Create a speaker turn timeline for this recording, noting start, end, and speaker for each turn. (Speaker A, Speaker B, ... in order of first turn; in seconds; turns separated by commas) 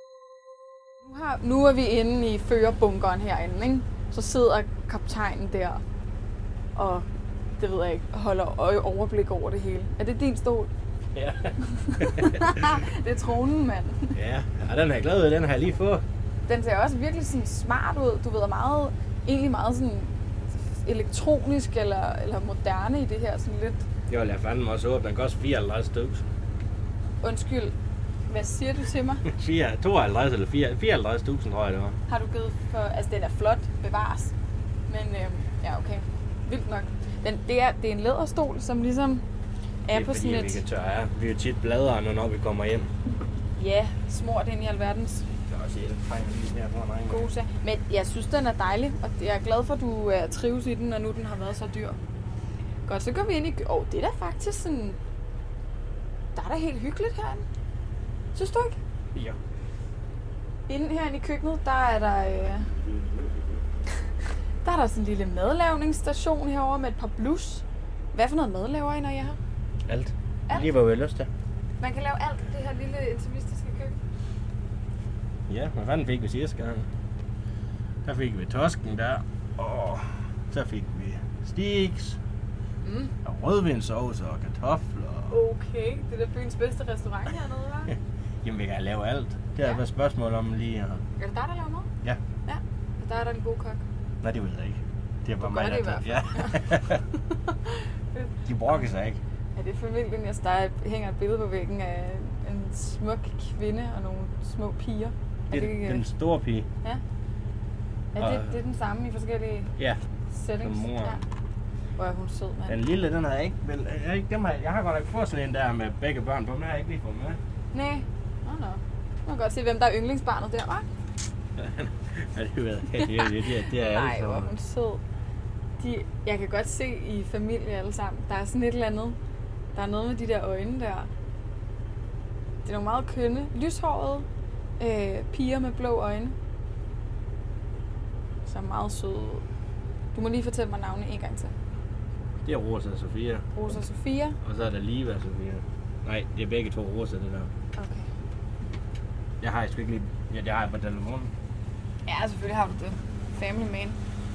Speaker A: 1.0-5.8, Speaker A: 6.8-7.0, Speaker A: 7.6-10.7, Speaker B: 11.1-12.8, Speaker A: 11.6-14.2, Speaker B: 14.1-16.0, Speaker A: 16.5-23.9, Speaker B: 24.1-26.2, Speaker A: 27.2-27.7, Speaker A: 28.3-29.2, Speaker B: 29.2-31.9, Speaker A: 32.1-34.3, Speaker A: 34.9-39.2, Speaker A: 39.8-40.6, Speaker B: 39.9-42.9, Speaker A: 43.6-45.3, Speaker B: 45.4-47.3, Speaker A: 47.1-52.0, Speaker A: 52.9-55.0, Speaker A: 56.3-57.4, Speaker A: 58.3-58.8, Speaker A: 60.7-62.7, Speaker A: 64.6-69.4, Speaker B: 69.8-71.3, Speaker A: 71.8-74.0, Speaker B: 75.5-76.9, Speaker B: 78.0-82.2, Speaker A: 82.8-83.1, Speaker B: 83.2-85.3, Speaker A: 85.3-87.9, Speaker B: 87.9-91.0, Speaker A: 91.2-91.9, Speaker A: 92.5-93.8, Speaker B: 94.2-97.0, Speaker A: 95.4-98.4, Speaker B: 98.4-99.2, Speaker A: 99.5-106.0, Speaker B: 105.5-106.7, Speaker A: 108.1-109.7, Speaker B: 108.2-108.5, Speaker A: 110.3-111.2, Speaker B: 110.6-111.2, Speaker A: 112.0-112.8, Speaker B: 112.7-117.4, Speaker A: 117.7-120.8, Speaker B: 121.5-124.5, Speaker A: 123.7-125.0, Speaker A: 125.8-129.2, Speaker A: 129.7-131.1, Speaker A: 132.6-134.3, Speaker A: 134.8-136.3, Speaker A: 138.4-139.4, Speaker A: 140.1-141.5, Speaker B: 142.4-143.4, Speaker A: 143.6-144.4, Speaker B: 144.4-147.5, Speaker A: 147.8-148.1, Speaker B: 149.4-151.3, Speaker A: 152.1-154.0